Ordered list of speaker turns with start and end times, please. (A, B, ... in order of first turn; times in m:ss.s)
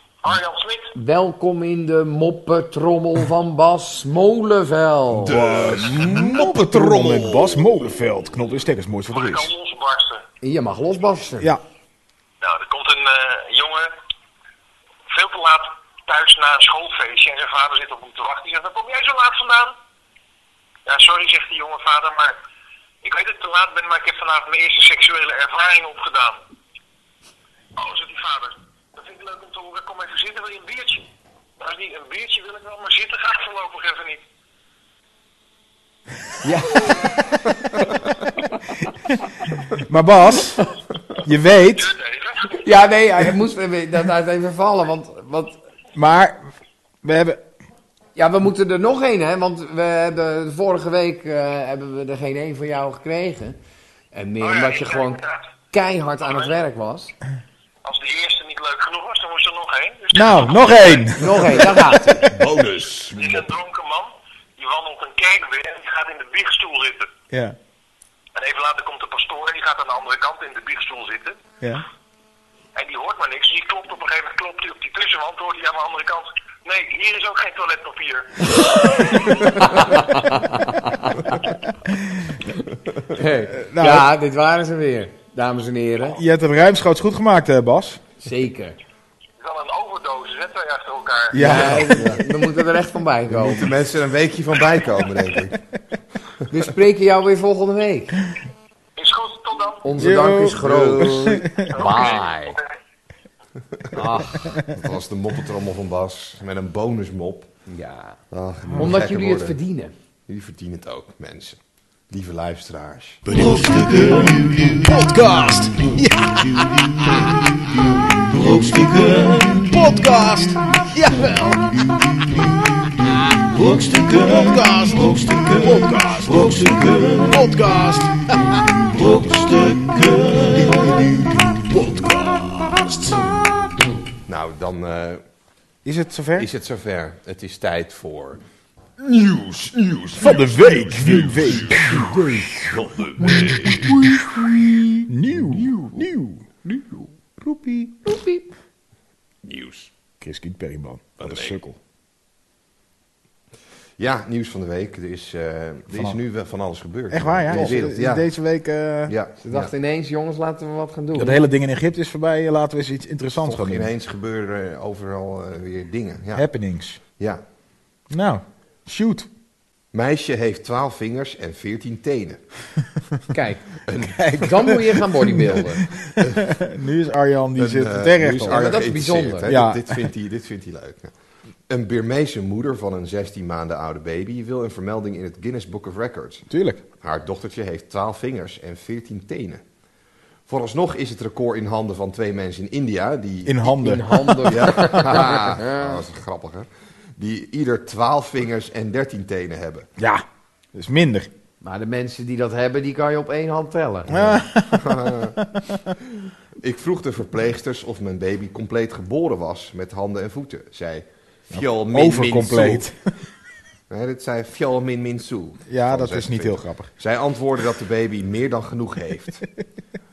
0:00.2-0:00.9 A
0:00.9-0:05.4 B
0:05.2-0:07.7 C
0:05.3-0:09.5 D
0:09.1-0:10.2 A
0:10.4-0:11.5 B
0:12.4-0:13.9 A
0:15.1-0:19.8 A
0:20.8-0:22.4 A
0:23.0-0:26.4 A
0:27.8-0:31.1 A
0:31.6-0:34.2 A
0:36.4-0:37.2 B
0:39.7-0:40.7 D
0:41.2-0:41.9 D
0:41.6-0:42.6 A
0:42.5-0:45.6 B
0:45.9-0:46.4 D
0:47.0-0:47.4 D
0:48.2-0:53.6 B
0:54.1-0:57.1 B
0:54.4-0:55.4 A
0:57.8-1:01.2 A
1:00.1-1:02.3 D
1:01.1-1:02.3 B
1:02.2-1:03.5 C
1:03.1-1:07.1 A
1:07.3-1:07.6 D
1:08.3-1:11.4 A
1:12.8-1:20.0 A
1:18.5-1:21.4 B
1:23.1-1:26.2 B
1:23.6-1:24.1 D
1:26.1-1:28.0 D
1:28.2-1:28.8 B
1:29.4-1:31.4 A
1:31.3-1:32.2 D
1:31.3-1:33.7 B
1:31.4-1:32.2 C
1:33.3-1:35.6 C
1:36.5-1:38.2 B
1:39.0-1:39.9 A
1:39.8-1:42.6 B
1:40.0-1:41.8 D
1:40.3-1:41.4 C
1:41.7-1:42.6 A
1:43.9-1:44.6 B
1:44.7-1:47.5 C
1:47.7-1:48.2 B
1:48.3-1:49.6 C
1:48.7-1:49.9 B
1:50.3-1:53.2 C
1:53.3-2:13.6 E
1:54.9-1:57.3 D
1:59.6-2:01.7 D
2:04.3-2:04.6 D
2:05.6-2:07.9 D
2:14.3-2:15.2 C
2:15.8-2:16.5 D
2:16.4-2:18.4 C
2:19.0-2:24.3 C
2:20.2-2:22.3 D
2:21.8-2:22.6 B
2:23.2-2:26.4 D
2:25.5-2:25.8 C
2:26.6-2:27.0 B
2:27.4-2:27.9 D
2:28.0-2:28.4 B
2:29.4-2:29.9 C
2:30.2-2:31.8 D
2:31.2-2:31.6 C
2:34.0-2:38.3 C
2:37.1-2:39.1 D
2:39.1-2:39.7 C
2:39.4-2:41.4 B
2:41.1-2:43.9 D
2:43.4-2:46.4 C
2:46.3-2:47.0 D
2:47.2-2:47.4 C
2:48.1-2:49.3 D
2:49.9-2:52.7 C
2:53.3-2:53.8 B
2:53.8-2:54.8 C
2:54.0-2:58.8 D
2:54.3-2:55.9 B
2:56.2-2:56.5 C
2:57.6-3:01.1 C
2:58.5-2:59.5 B
2:59.4-3:00.1 D
3:01.7-3:06.5 C
3:06.5-3:06.8 D
3:07.0-3:09.6 C
3:10.5-3:13.6 C
3:13.4-3:14.9 D
3:13.7-3:16.0 B
3:14.5-3:19.9 C
3:20.0-3:21.3 D
3:21.6-3:24.4 B
3:24.1-3:25.8 D
3:24.7-3:25.4 C
3:26.6-3:32.8 C
3:31.5-3:33.0 D
3:33.9-3:39.4 C
3:35.7-3:36.9 D